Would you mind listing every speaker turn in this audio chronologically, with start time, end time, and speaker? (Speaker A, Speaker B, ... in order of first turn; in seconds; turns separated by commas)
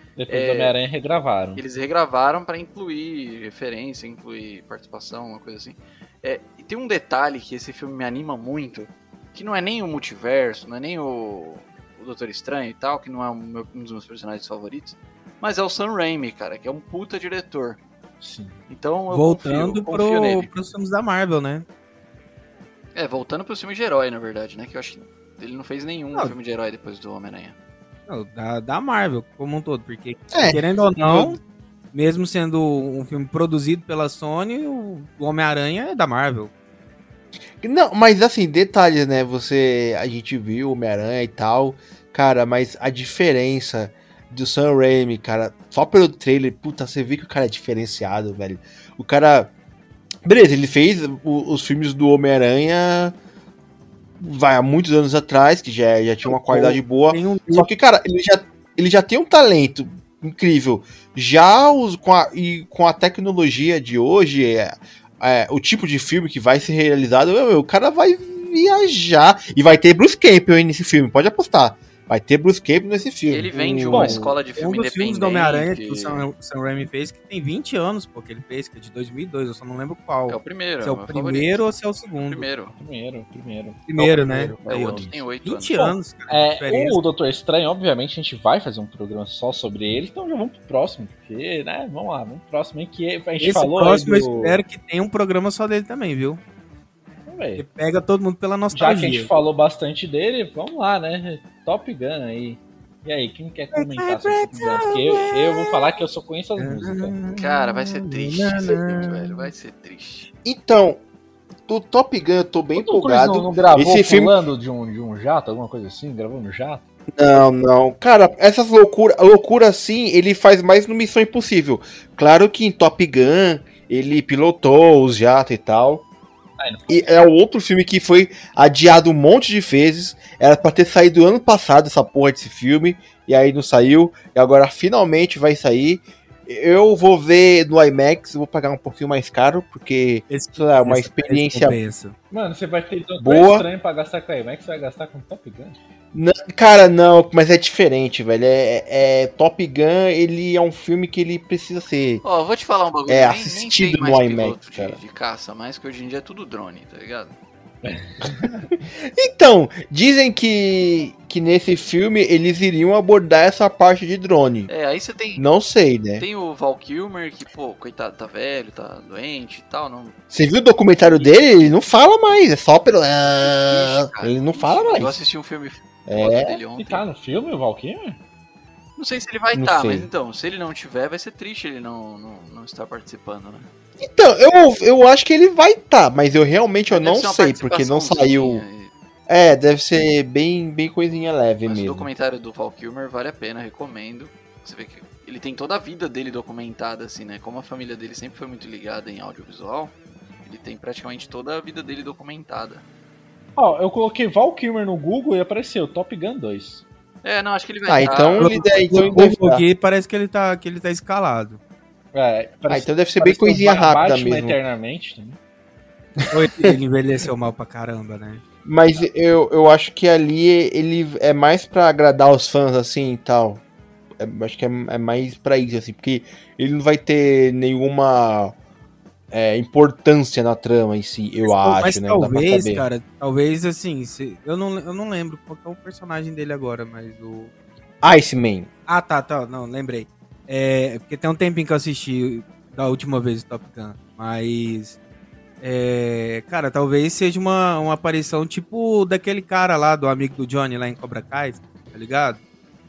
Speaker A: 0.2-1.6, Speaker B: 0.3-0.7, Speaker B: 1.6-17.8, Speaker A: 18.2-18.6, Speaker B: 18.7-20.5, Speaker C: 19.1-21.6, Speaker B: 22.9-27.6, Speaker C: 28.1-31.4, Speaker D: 30.3-31.4, Speaker C: 31.9-36.5, Speaker D: 37.6-49.5, Speaker D: 50.2-53.1, Speaker D: 54.2-74.1, Speaker C: 56.2-57.7, Speaker B: 73.3-76.3, Speaker C: 73.5-82.5, Speaker B: 80.3-81.6, Speaker B: 82.2-82.7, Speaker A: 82.7-85.2, Speaker C: 83.9-87.0, Speaker B: 84.7-85.9, Speaker A: 86.3-94.6, Speaker C: 93.4-96.4, Speaker A: 97.2-97.6, Speaker C: 97.6-99.3, Speaker A: 98.7-107.1, Speaker C: 103.7-105.9, Speaker C: 106.6-109.5, Speaker B: 107.3-110.3, Speaker D: 110.4-111.0, Speaker D: 111.7-114.3, Speaker A: 112.7-116.8, Speaker D: 117.2-126.0, Speaker A: 126.6-127.0, Speaker D: 126.9-141.8, Speaker C: 140.3-142.2, Speaker A: 142.3-145.8, Speaker D: 143.2-143.7, Speaker D: 146.1-152.2, Speaker B: 152.2-157.3, Speaker D: 153.1-155.0, Speaker A: 157.8-158.6, Speaker D: 159.0-164.7, Speaker B: 164.7-165.4, Speaker D: 165.4-166.2, Speaker B: 166.2-170.2, Speaker D: 170.3-175.2, Speaker B: 173.4-177.0, Speaker D: 176.1-176.6, Speaker A: 176.8-178.2, Speaker B: 179.0-183.7, Speaker D: 179.5-180.1, Speaker D: 184.0-188.6, Speaker B: 186.9-188.9, Speaker D: 189.3-192.1, Speaker B: 191.6-202.8, Speaker A: 203.6-206.8, Speaker B: 207.2-208.6, Speaker D: 207.9-209.6, Speaker C: 208.4-211.6, Speaker A: 212.1-215.4, Speaker D: 212.7-214.6, Speaker D: 216.2-216.7, Speaker C: 216.3-218.4, Speaker D: 218.6-223.6, Speaker D: 224.2-228.6, Speaker D: 229.3-232.9, Speaker C: 231.4-237.5, Speaker D: 238.0-238.7, Speaker C: 238.9-245.0, Speaker C: 245.6-252.4